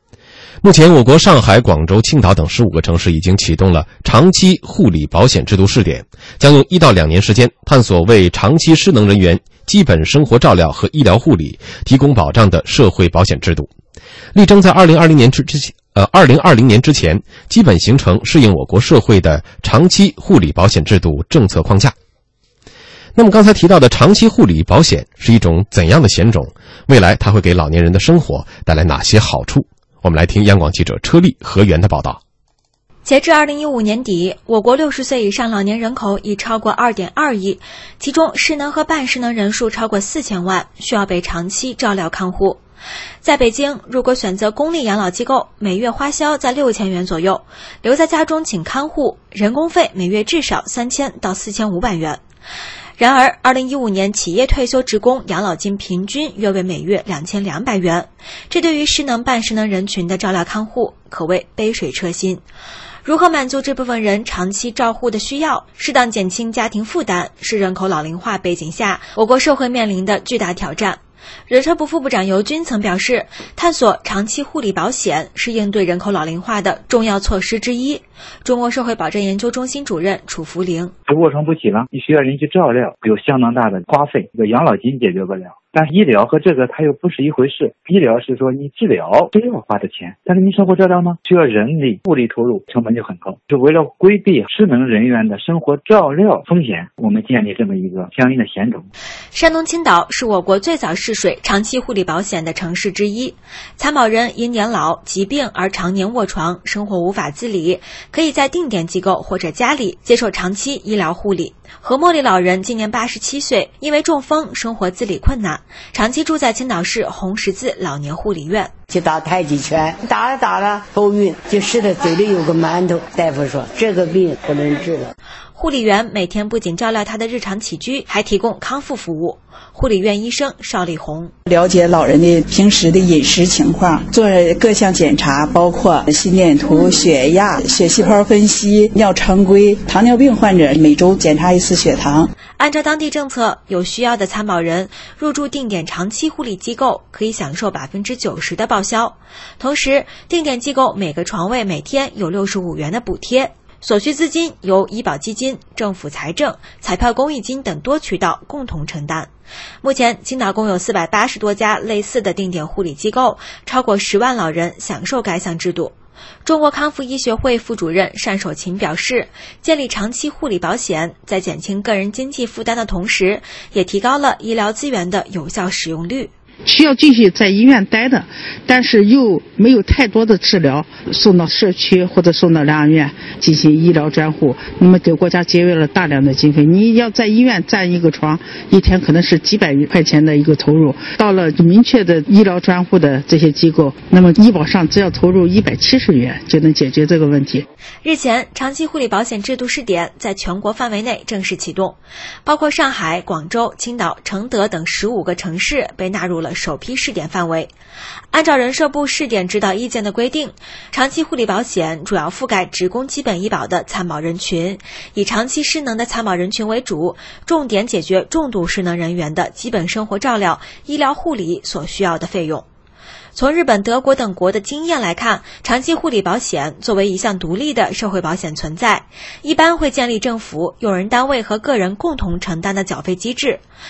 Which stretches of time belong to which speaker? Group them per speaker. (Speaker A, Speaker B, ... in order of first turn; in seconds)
Speaker A: 0.6-13.7, 14.3-21.9, 23.1-32.2
Speaker B: 33.0-42.6, 43.2-52.2, 53.0-62.4, 63.0-80.9, 99.3-118.7, 125.5-131.3, 142.6-159.3, 159.8-165.9, 166.4-176.3, 198.0-207.7, 208.3-222.6, 223.3-233.6
Speaker C: 81.1-98.8
Speaker D: 118.9-125.1
Speaker E: 131.5-142.3
Speaker F: 176.7-197.6